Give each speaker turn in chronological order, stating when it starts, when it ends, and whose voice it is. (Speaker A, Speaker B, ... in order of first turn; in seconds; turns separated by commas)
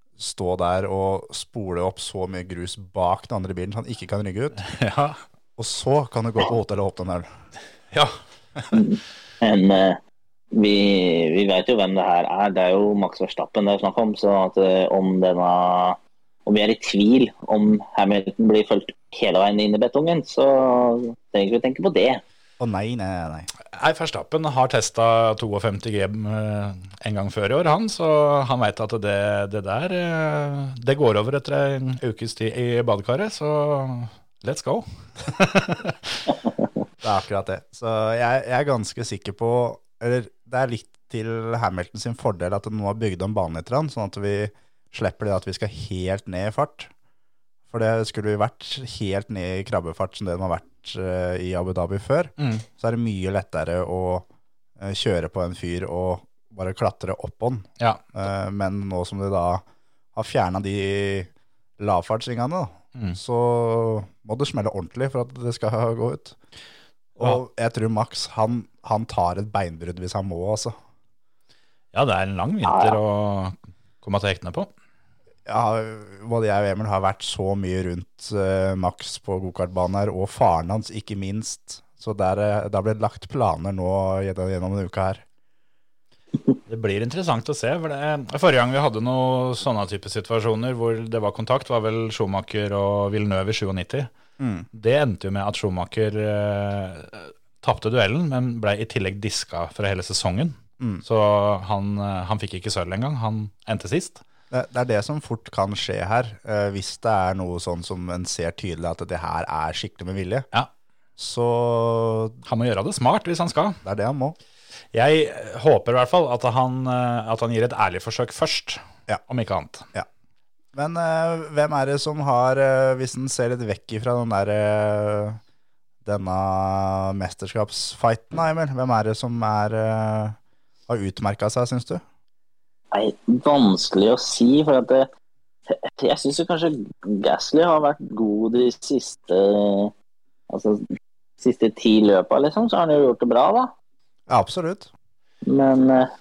Speaker A: 0.2-4.6, Speaker B: 4.6-5.2, Speaker A: 5.6-7.3, Speaker B: 7.9-8.8, Speaker C: 8.7-10.0, Speaker C: 10.5-22.2, Speaker A: 22.6-23.5, Speaker B: 23.7-36.3, Speaker A: 37.0-46.9, Speaker A: 47.7-54.3, Speaker B: 52.4-52.6, Speaker A: 54.8-59.6, Speaker A: 60.1-66.4, Speaker A: 67.2-70.7, Speaker B: 71.9-74.7, Speaker C: 72.7-73.0, Speaker A: 75.5-85.2, Speaker B: 86.7-94.1, Speaker A: 94.4-94.7, Speaker B: 94.7-104.2, Speaker A: 100.8-101.0, Speaker A: 104.5-110.5, Speaker A: 111.2-112.4, Speaker B: 112.4-113.8, Speaker A: 113.8-114.3, Speaker B: 114.9-119.8, Speaker A: 120.7-125.4, Speaker A: 126.0-130.4, Speaker A: 130.9-132.0, Speaker C: 132.9-135.1, Speaker C: 135.9-139.9, Speaker C: 140.5-140.8, Speaker C: 141.4-143.7, Speaker A: 144.3-144.9, Speaker C: 145.4-146.1